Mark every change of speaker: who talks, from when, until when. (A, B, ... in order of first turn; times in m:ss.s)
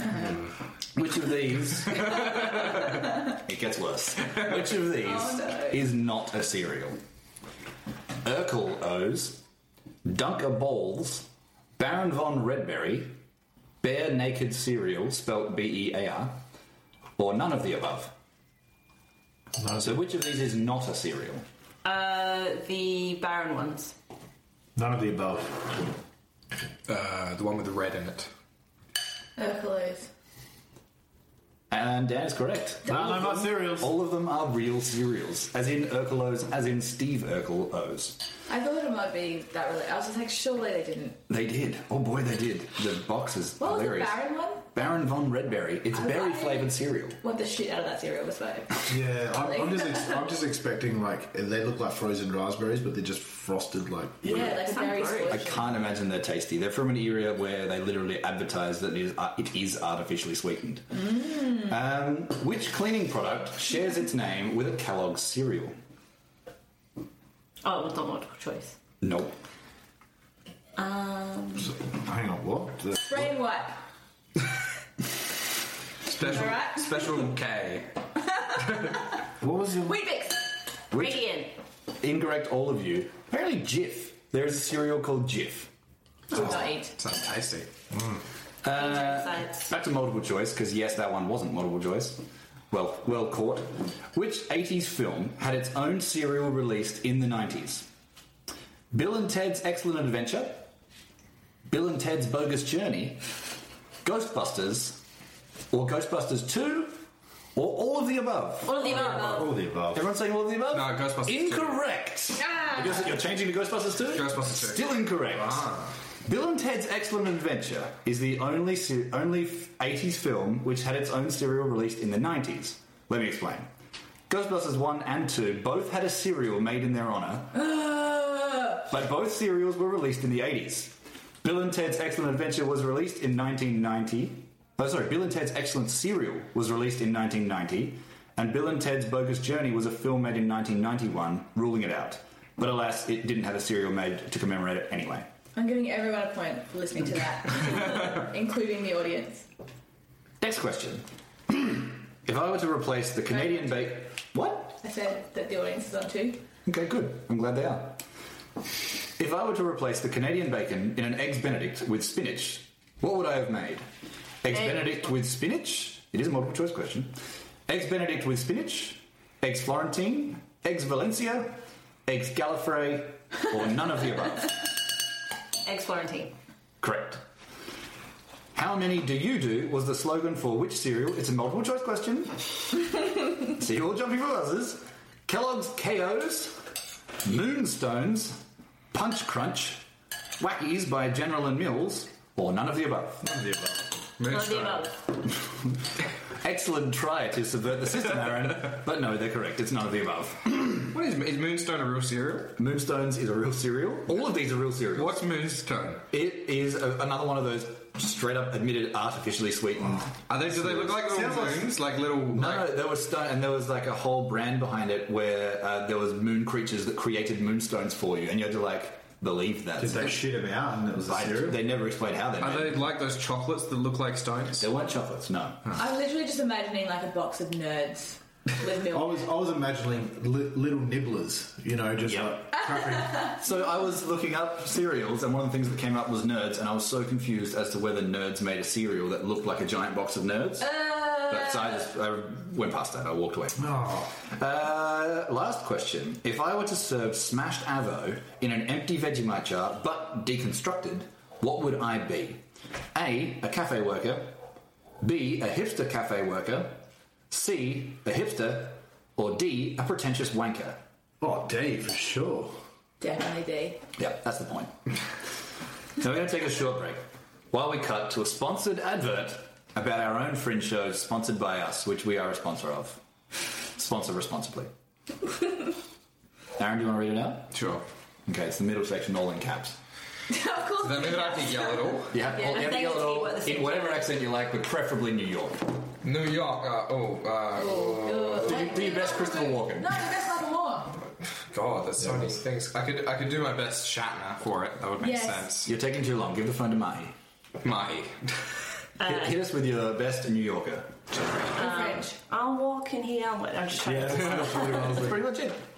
0:00.9-0:02.5 A
0:02.0-0:02.3 B
0:03.2-0:07.0 A
0:05.0-0:05.8 C
0:08.2-0:09.4 A
0:10.0-0:13.2 A
0:13.8-0:16.4 A
0:17.2-0:18.1 A
0:19.6-0:20.0 D
0:19.8-0:21.4 A
0:21.8-0:23.9 E
0:24.8-0:25.8 D
0:26.9-0:28.3 B
0:29.4-0:30.1 C
0:31.7-0:38.2 A
0:32.8-0:33.9 D
0:38.5-0:41.2 C
0:41.3-0:47.2 A
0:43.6-0:44.7 C
0:45.9-0:50.3 C
0:48.9-0:54.6 D
0:54.2-0:55.7 C
0:54.3-0:54.6 A
0:54.3-0:55.4 E
0:55.3-1:05.7 A
1:00.9-1:01.7 C
1:07.6-1:08.8 E
1:09.0-1:09.3 A
1:10.8-1:11.7 E
1:11.6-1:13.3 D
1:13.0-1:13.8 C
1:16.0-1:18.0 B
1:16.2-1:17.2 C
1:18.6-1:18.9 B
1:19.4-1:20.0 D
1:19.8-1:20.4 C
1:20.9-1:21.3 A
1:20.9-1:21.5 E
1:22.0-1:25.7 A
1:26.3-1:26.9 C
1:26.3-1:27.7 B
1:27.9-1:28.2 D
1:28.6-1:37.9 A
1:28.7-1:29.7 E
1:38.9-1:40.7 A
1:41.7-1:43.2 A
1:44.0-1:45.0 A
1:45.7-1:47.0 A
1:47.5-1:48.9 A
1:48.6-1:49.6 E
1:48.8-1:50.1 D
1:49.9-1:55.7 A
1:50.7-1:51.8 B
1:52.5-1:52.8 C
1:54.1-1:55.9 B
1:56.2-2:03.7 A
2:04.3-2:07.6 A
2:07.5-2:08.8 C
2:08.8-2:25.3 A
2:25.6-2:29.5 C
2:30.4-2:34.8 A
2:33.3-2:33.9 C
2:34.8-2:36.4 C
2:36.6-2:38.0 A
2:39.2-2:43.8 A
2:44.4-2:47.2 A
2:47.7-2:54.7 A
2:55.6-2:56.3 E
2:56.8-2:57.2 A
2:58.5-3:02.4 A
3:03.5-3:06.6 A
3:07.2-3:09.8 A
3:10.4-3:13.4 A
3:13.2-3:13.8 D
3:14.2-3:14.9 B
3:14.3-3:15.0 E
3:16.4-3:20.9 A
3:20.8-3:22.5 B
3:22.5-3:25.2 A
3:24.9-3:26.0 B
3:26.1-3:31.0 A
3:30.3-3:32.7 B
3:30.9-3:31.7 D
3:32.3-3:40.3 A
3:39.8-3:41.6 D
3:40.9-3:42.8 A
3:42.4-3:44.6 B
3:44.6-3:45.8 A
3:45.8-3:49.2 C
3:48.9-3:53.3 D
3:52.0-4:12.4 A
4:00.6-4:01.8 C
4:03.6-4:04.1 D
4:12.9-4:14.4 A
4:15.0-4:20.8 A
4:21.2-4:22.6 D
4:23.0-4:23.8 C
4:24.0-4:25.0 A
4:26.0-4:33.0 A
4:33.7-4:34.7 A
4:36.6-4:37.6 A
4:37.5-4:37.8 B
4:38.2-4:39.8 A
4:40.3-4:42.5 C
4:40.8-4:42.2 B
4:42.1-4:45.7 A
4:42.2-4:44.1 E
4:46.0-4:48.7 B
4:47.6-4:51.0 C
4:48.4-4:50.2 A
4:51.5-4:55.7 B
4:55.0-4:55.5 C
4:55.6-4:57.2 A
4:57.6-4:58.5 B
4:59.0-4:59.3 E
4:59.0-5:01.4 A
5:01.5-5:05.0 E
5:01.6-5:02.1 C
5:03.9-5:05.2 D
5:03.9-5:05.6 A